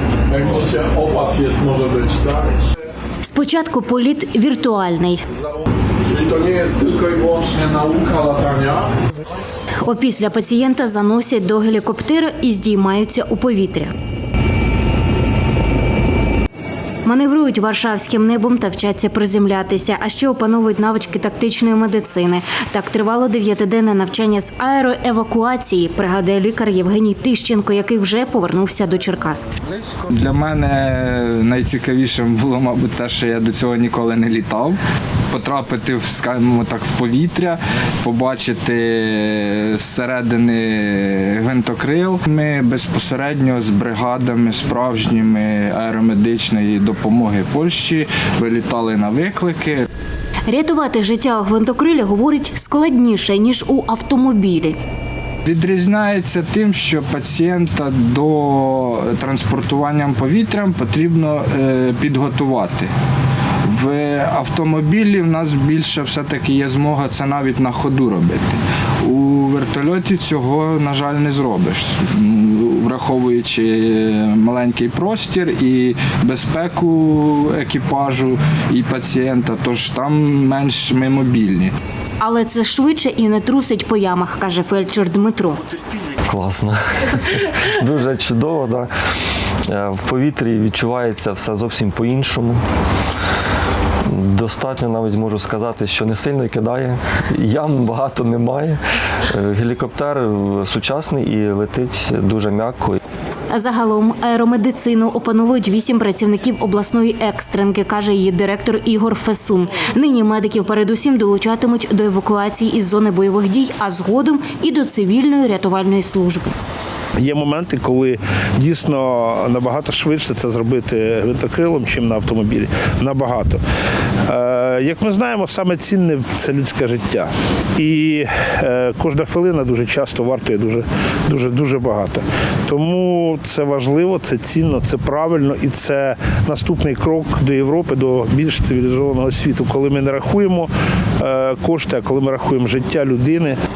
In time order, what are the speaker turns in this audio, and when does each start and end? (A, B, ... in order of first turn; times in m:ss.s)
0:00.3-0:02.6 A
0:03.2-0:05.2 B
0:05.3-0:08.9 A
0:09.8-0:13.9 B
0:17.0-0:29.5 B
0:29.6-0:34.8 C
0:35.3-0:49.9 C
0:50.5-0:54.8 B
0:55.4-1:02.9 C
1:03.7-1:21.7 C
1:22.2-1:25.6 B
1:26.2-1:28.9 D
1:29.7-1:32.6 D
1:34.1-1:43.0 D
1:43.5-1:56.5 B
1:57.2-2:03.6 E
2:04.3-2:23.6 E